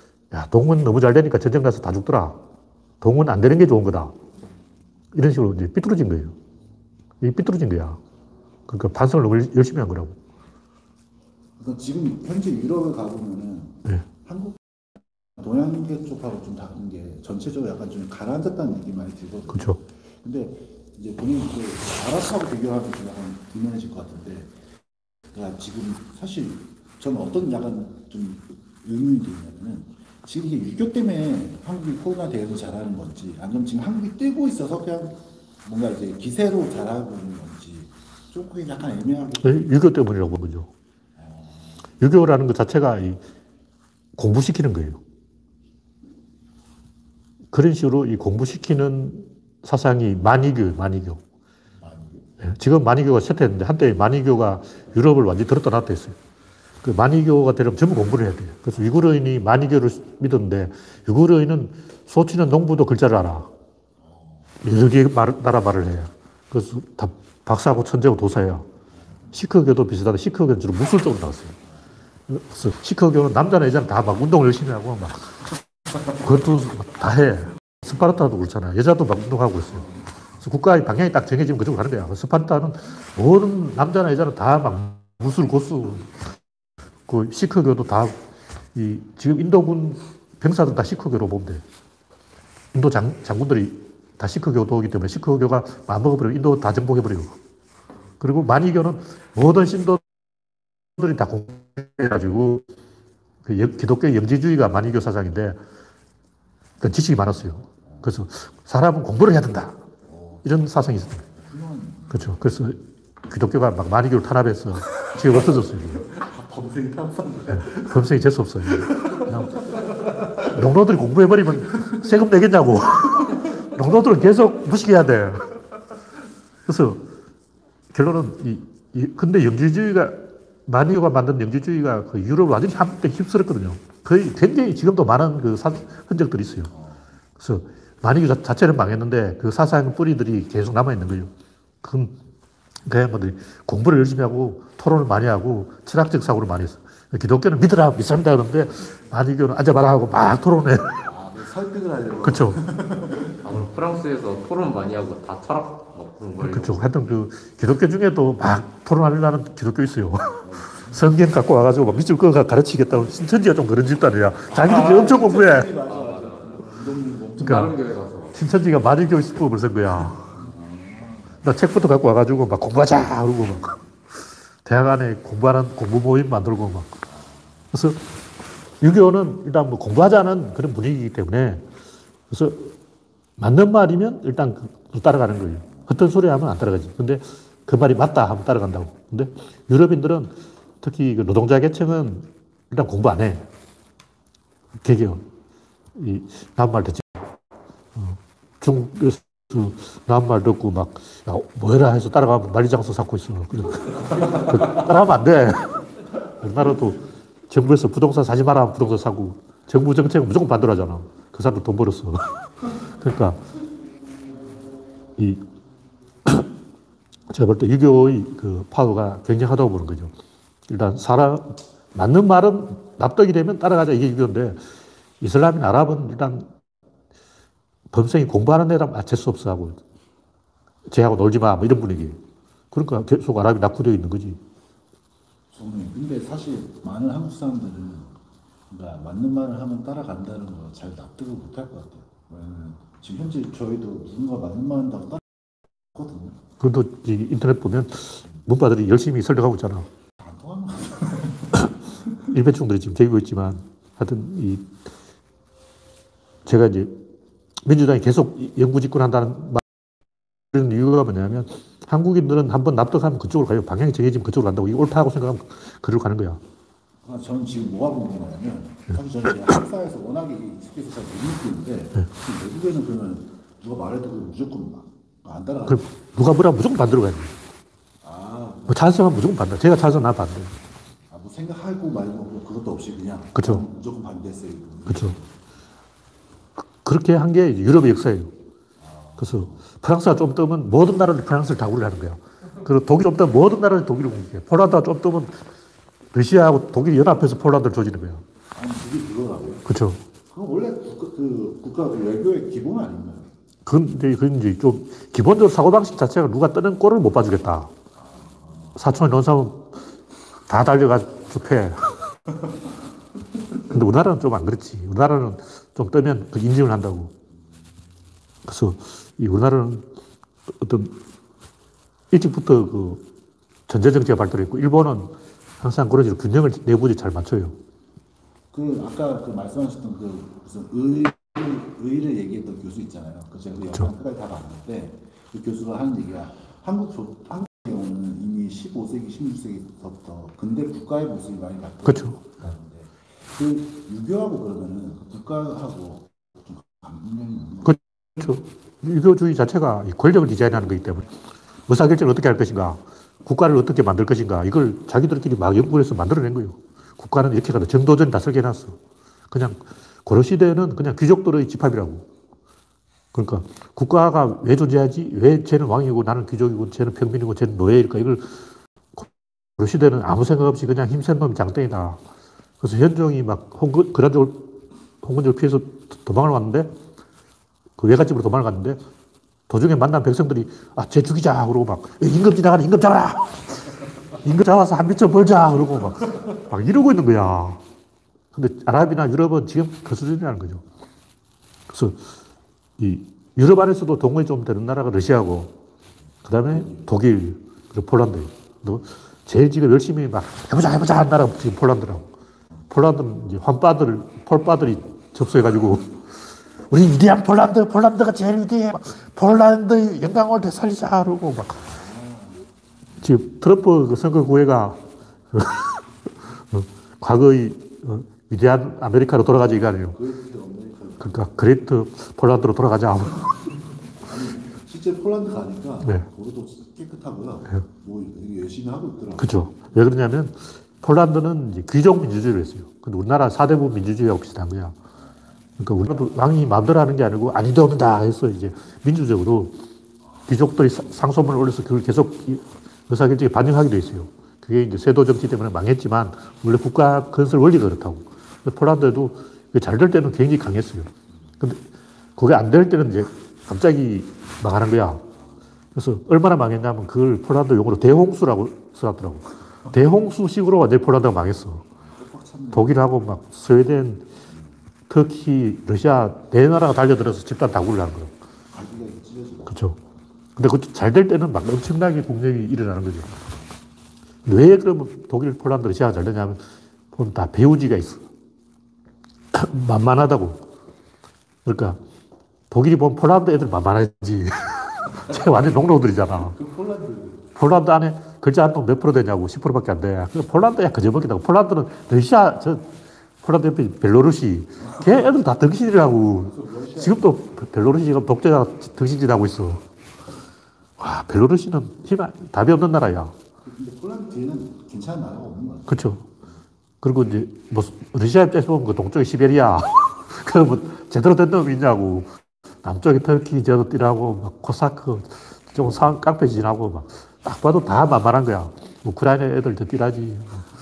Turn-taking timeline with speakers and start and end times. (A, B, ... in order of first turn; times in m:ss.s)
0:00.3-0:02.4 A
0:03.0-0:04.1 A
0:05.1-0:06.4 A
0:07.2-0:08.0 A
0:08.7-0:10.2 A
0:11.6-0:24.6 B
0:19.5-0:19.8 A
0:25.3-0:39.6 B
0:39.4-0:40.7 A
0:41.2-0:41.8 B
0:42.0-0:43.2 A
0:44.2-0:45.0 A
0:47.5-0:51.2 A
0:51.8-0:52.3 B
0:52.4-0:56.2 A
0:56.8-1:03.5 A
1:04.0-1:04.5 B
1:04.6-1:08.7 A
1:09.3-1:11.6 A
1:12.3-1:15.5 A
1:16.2-1:26.2 A
1:27.1-1:28.2 A
1:28.7-1:31.6 A
1:32.7-1:37.4 A
1:38.2-1:40.0 A
1:41.0-1:42.6 A
1:43.4-1:45.6 A
1:46.8-1:49.8 A
1:50.0-1:50.5 B
1:50.4-1:51.3 A
1:51.3-1:52.4 B
1:52.1-1:56.1 A
1:56.1-1:58.0 B
1:57.5-1:59.6 A
1:59.0-1:59.4 B
2:00.4-2:05.5 A
2:06.7-2:07.0 A
2:07.9-2:16.7 A
2:16.7-2:17.1 B
2:17.4-2:21.3 A
2:21.8-2:22.2 A
2:22.9-2:31.0 A
2:31.0-2:33.4 B
2:32.2-2:32.6 A
2:33.4-2:36.8 C
2:36.4-2:45.7 A
2:40.4-2:41.0 B
2:44.5-2:47.8 B
2:45.8-2:46.7 C
2:47.4-2:48.4 C
2:47.4-2:47.8 A
2:48.3-2:50.4 A
2:50.3-2:51.4 B
2:51.4-2:53.8 A
2:54.6-2:57.0 A
2:57.1-2:57.6 B
2:57.7-2:58.1 A
2:58.8-3:01.6 A
3:02.3-3:02.8 A
3:03.4-3:13.4 A
3:14.8-3:15.2 A
3:16.0-3:17.3 A
3:18.0-3:25.9 A
3:26.4-3:33.4 A
3:35.2-3:35.4 A
3:37.3-3:40.1 A
3:40.7-3:44.6 A
3:45.2-3:46.5 A
3:47.9-3:49.8 A
3:50.9-3:52.2 A
3:52.7-3:54.4 A
3:55.5-3:58.1 B
3:58.7-4:05.2 B
4:05.9-4:06.4 B
4:06.6-4:09.9 A
4:10.2-4:11.6 B
4:12.3-4:14.8 A
4:16.4-4:17.0 A
4:17.6-4:19.6 A
4:20.5-4:26.4 A
4:27.0-4:35.9 B
4:35.7-4:37.4 A
4:38.0-4:39.0 B
4:38.7-4:40.5 A
4:41.1-4:45.3 B
4:43.4-4:43.7 A
4:44.9-4:45.2 A
4:46.8-4:48.3 A
4:48.8-4:49.6 B
4:49.2-4:55.4 A
4:56.1-4:58.2 A
4:58.5-4:59.7 B
4:59.7-5:00.0 A
5:00.3-5:03.3 B
5:03.7-5:07.7 A
5:08.0-5:08.8 B
5:08.8-5:09.7 A
5:10.5-5:12.0 A
5:13.7-5:17.1 A
5:18.4-5:19.9 A
5:20.6-5:21.0 A
5:22.1-5:23.0 A
5:23.7-5:27.6 A
5:28.5-5:47.8 B
5:41.8-5:42.2 A
5:47.6-5:51.1 A
5:51.7-5:58.8 A
5:59.3-6:02.0 A
6:03.1-6:08.4 A
6:09.0-6:12.0 A
6:12.6-6:16.7 A
6:17.8-6:18.8 A
6:19.5-6:27.6 A
6:28.3-6:30.6 A
6:31.7-6:32.0 A
6:32.8-6:35.5 A
6:36.2-6:42.1 A
6:36.5-6:36.8 B
6:42.7-6:51.8 A
6:51.7-6:52.4 B
6:53.0-6:55.8 A
6:56.4-7:00.0 A
6:59.9-7:01.2 B
7:01.0-7:03.5 A
7:04.0-7:09.5 B
7:05.8-7:06.1 A
7:09.2-7:14.8 A
7:15.6-7:19.6 A
7:20.3-7:31.6 A
7:32.2-7:35.0 A
7:35.7-7:41.7 A
7:41.9-7:42.9 B
7:42.5-7:44.0 A
7:44.9-7:48.1 A
7:48.5-7:49.7 B
7:49.5-7:49.8 A
7:50.4-7:53.2 A
7:54.2-7:58.1 A
7:59.3-8:00.4 A
8:01.4-8:01.8 A
8:02.5-8:06.4 A
8:06.3-8:07.3 B
8:07.4-8:12.7 A
8:13.2-8:19.6 A
8:16.2-8:17.2 B
8:20.8-8:23.1 A
8:23.4-8:26.0 B
8:25.7-8:26.0 A
8:26.8-8:32.1 A
8:32.6-8:40.5 A